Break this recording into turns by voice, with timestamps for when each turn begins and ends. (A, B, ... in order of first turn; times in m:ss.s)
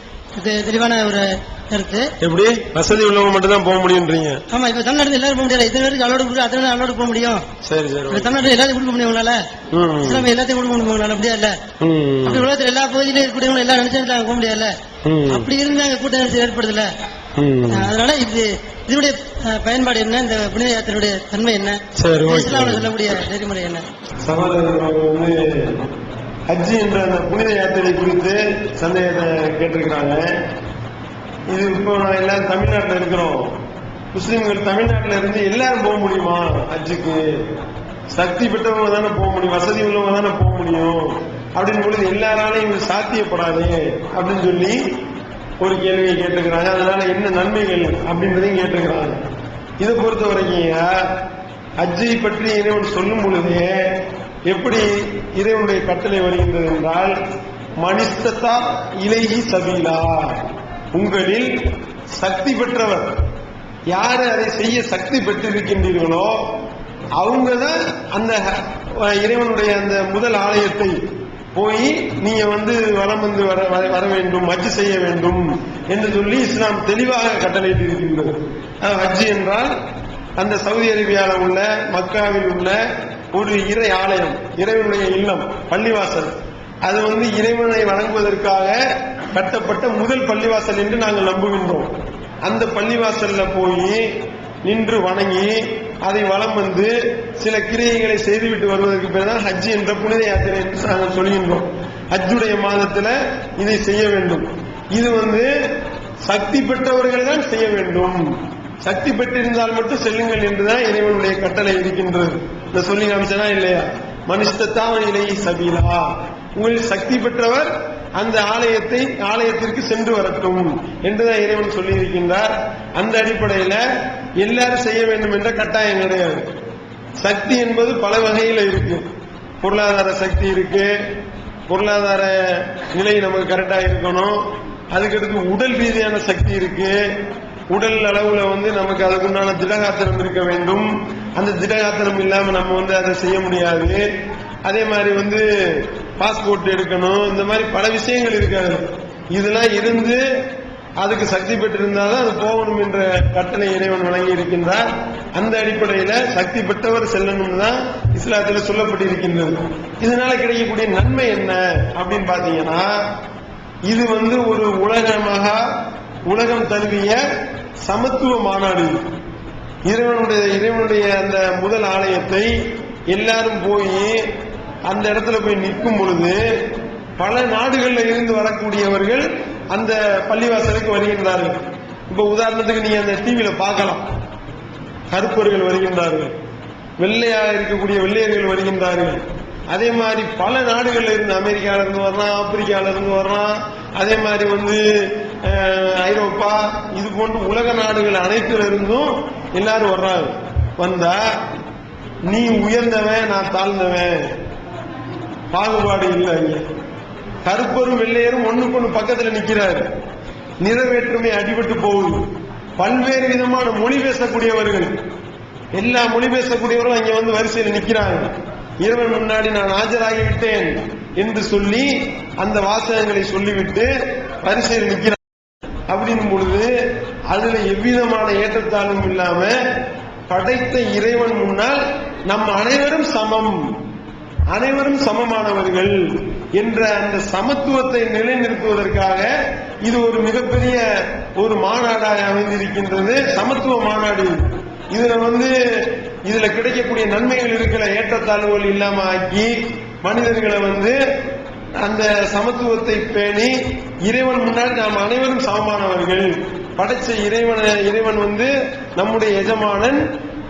0:00.4-0:02.1 A
0:02.2-0:04.4 B
0:04.5-0:07.4 A
0:07.6-0:08.4 B
0:08.1-0:09.4 A
0:09.7-0:10.3 B
0:10.0-0:11.6 A
0:11.8-0:12.5 B
0:12.2-0:14.7 A
0:15.0-0:15.5 B
0:15.3-0:16.9 A
0:17.4-0:17.9 B
0:17.7-0:23.8 A
0:22.0-0:22.9 B
0:24.2-0:25.9 B
0:26.5-0:30.2 B
0:31.5-0:33.5 B
0:34.1-0:37.5 B
0:38.1-0:44.8 B
0:45.6-0:49.2 B
0:49.8-0:51.1 B
0:51.8-0:57.2 B
0:57.8-1:01.5 B
1:02.1-1:03.1 B
1:03.9-1:06.4 B
1:07.2-1:11.0 B
1:11.5-1:19.7 B
1:20.4-1:22.8 B
1:23.3-1:26.3 B
1:26.8-1:28.8 B
1:29.3-1:31.9 B
1:32.4-1:34.0 B
1:34.6-1:45.5 B
1:46.2-1:48.2 B
1:48.8-2:03.8 B
2:04.4-2:06.5 B
2:07.2-2:09.0 B
2:09.6-2:10.9 B
2:11.7-2:14.4 B
2:14.9-2:17.0 B
2:17.7-2:24.0 B
2:24.6-2:30.2 B
2:31.0-2:42.9 B
2:43.9-2:45.6 B
2:46.3-2:47.2 B
2:47.8-2:49.0 B
2:49.9-2:52.5 B
2:53.1-2:54.2 B
2:54.9-2:56.4 B
2:57.2-3:01.6 B
3:02.1-3:04.0 B
3:05.1-3:06.3 B
3:07.0-3:21.4 B
3:22.3-3:24.3 B
3:25.5-3:26.6 B
3:27.4-3:29.8 B
3:30.6-3:32.2 B
3:32.8-3:34.9 B
3:35.7-3:38.3 B
3:38.8-3:43.9 B
3:44.4-3:45.2 B
3:45.9-3:46.7 B
3:47.3-3:49.6 B
3:50.3-3:53.7 B
3:54.5-3:59.3 B
3:59.8-4:09.5 B
4:10.0-4:11.0 B
4:11.8-4:20.0 B